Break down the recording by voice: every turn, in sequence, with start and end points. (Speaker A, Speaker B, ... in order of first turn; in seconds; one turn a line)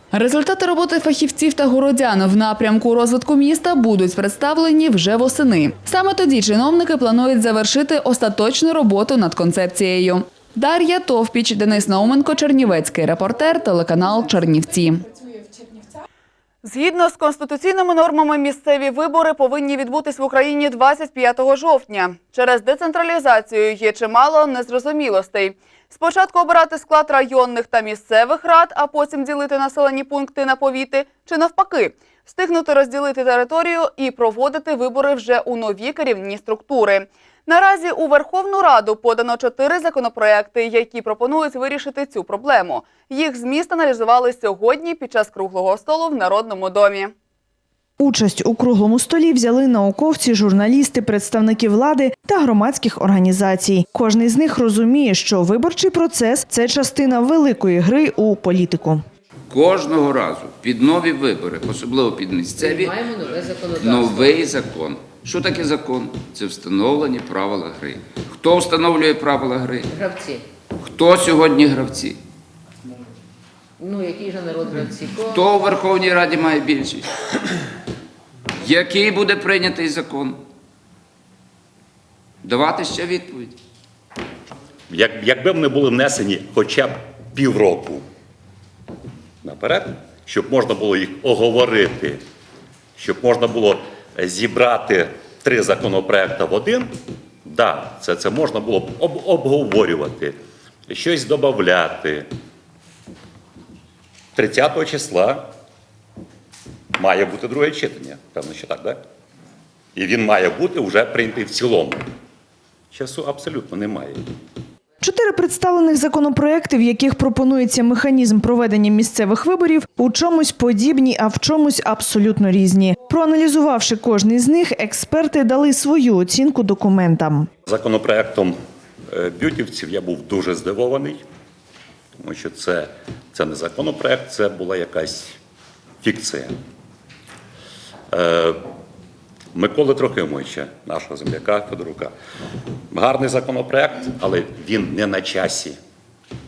Speaker A: 0.1-15.1
Speaker A: 16.6-47.1
Speaker B: 48.0-59.0
Speaker C: 59.5-63.1
Speaker D: 62.6-64.3
Speaker C: 63.8-69.9
Speaker D: 69.9-70.4
Speaker C: 70.8-72.2
Speaker D: 73.8-75.4
Speaker C: 75.2-77.1
Speaker C: 78.6-80.4
Speaker C: 82.4-83.6
Speaker E: 84.9-88.0
Speaker E: 89.4-92.2
Speaker E: 93.0-96.9
Speaker E: 97.4-100.4
Speaker E: 100.9-102.3
Speaker E: 104.3-105.5
Speaker E: 107.0-109.0
Speaker E: 109.9-112.1
Speaker E: 112.9-114.3
Speaker B: 115.0-127.5
Speaker E: 127.7-131.2
Speaker E: 132.2-135.4
Speaker E: 136.0-136.6
Speaker E: 138.1-138.7
Speaker E: 139.5-142.1
Speaker E: 142.9-145.8